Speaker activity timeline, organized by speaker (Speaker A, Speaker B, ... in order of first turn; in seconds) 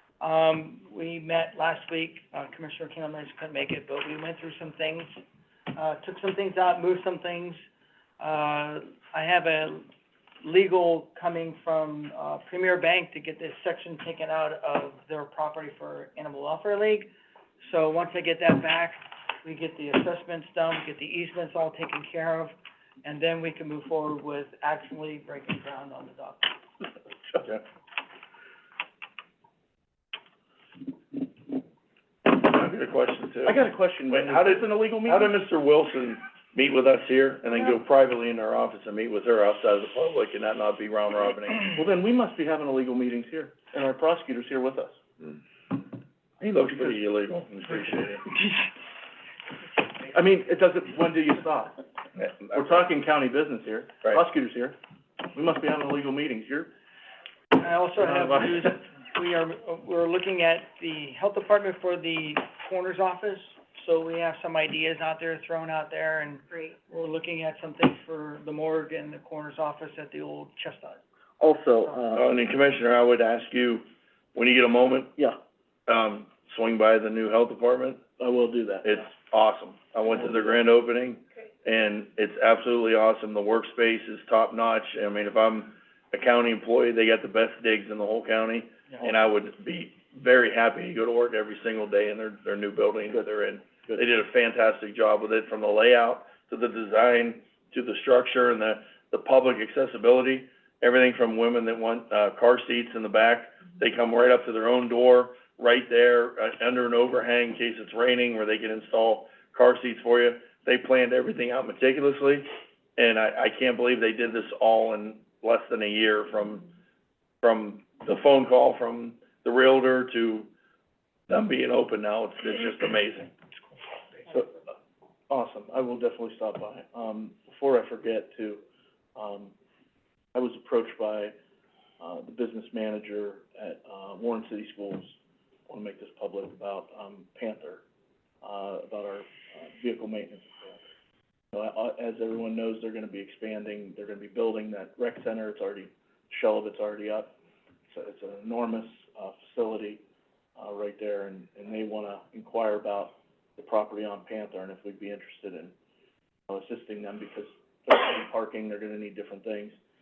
Speaker A: 0.2-5.2, 5.7-7.6, 8.2-9.9, 10.4-17.1, 17.6-26.6, 57.5-71.0
Speaker B: 32.2-41.8, 45.2-45.9, 46.4-48.3, 52.2-52.6, 72.1-73.8, 74.3-75.2, 75.9-78.1, 78.8-116.7, 117.4-120.5, 121.3-123.3
Speaker C: 33.5-35.4, 41.7-45.0, 50.1-51.8, 52.5-54.8, 55.3-56.7, 58.0-58.6, 71.4-72.2, 78.2-79.1, 80.0-80.7, 124.3-124.6, 125.3-128.6, 129.2-129.5, 130.3-131.3, 132.0-135.2, 135.7-137.8, 138.4-140.8, 141.5-147.3, 147.9-150.0, 150.6-155.7, 156.5-159.8